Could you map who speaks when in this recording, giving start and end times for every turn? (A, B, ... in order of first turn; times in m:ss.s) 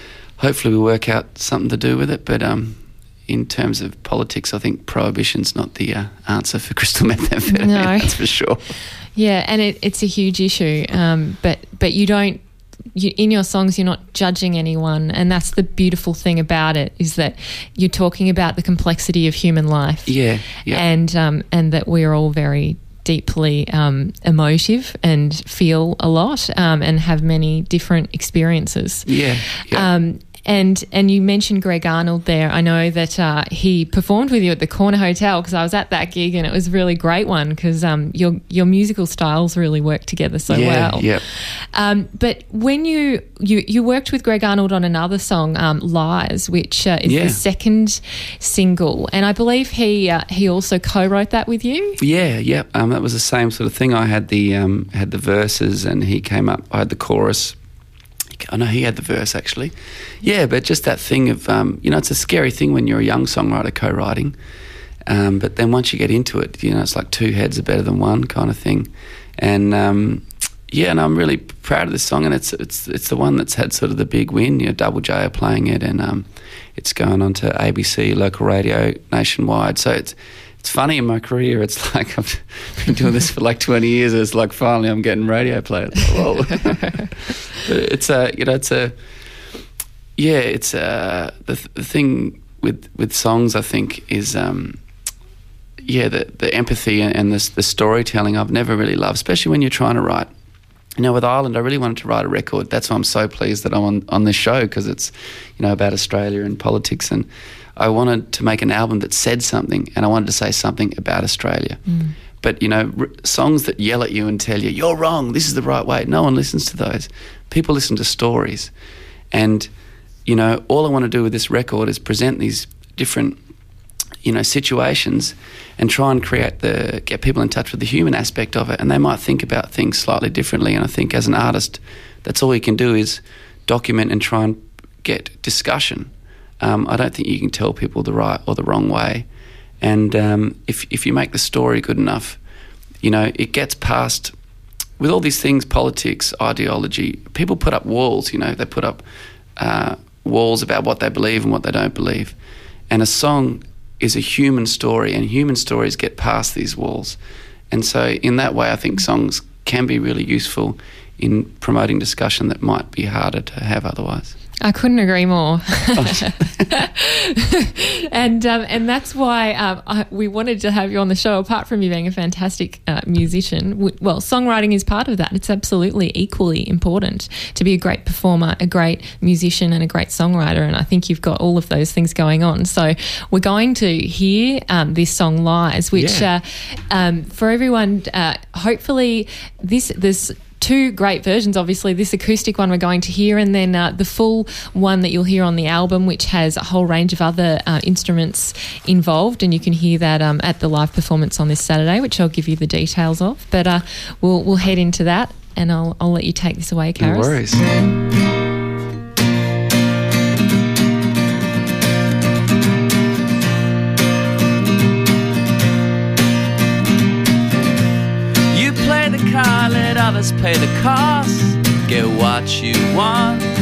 0:00.4-0:08.6 A
0:07.5-0:08.2 B
0:09.1-0:12.4 B
0:12.9-0:52.0 B
0:20.1-0:20.8 A
0:29.0-0:29.9 A
0:40.5-0:41.2 A
0:47.0-0:47.4 A
0:52.0-0:57.6 A
0:58.4-1:04.4 A
1:05.1-1:28.9 A
1:26.6-1:27.1 B
1:30.2-1:34.8 A
1:35.8-1:40.3 A
1:41.0-1:51.8 A
1:51.9-1:52.1 B
1:52.4-1:58.7 A
1:59.3-1:59.7 A
2:00.2-2:03.4 A
2:04.2-2:19.3 A
2:19.8-2:22.4 A
2:23.0-2:24.3 A
2:25.0-2:29.0 A
2:29.6-2:32.4 A
2:32.9-2:37.2 A
2:37.7-2:44.3 A
2:44.6-3:27.4 B
2:46.0-2:46.7 A
3:05.9-3:06.3 A
3:27.0-3:27.6 A
3:38.5-3:43.4 C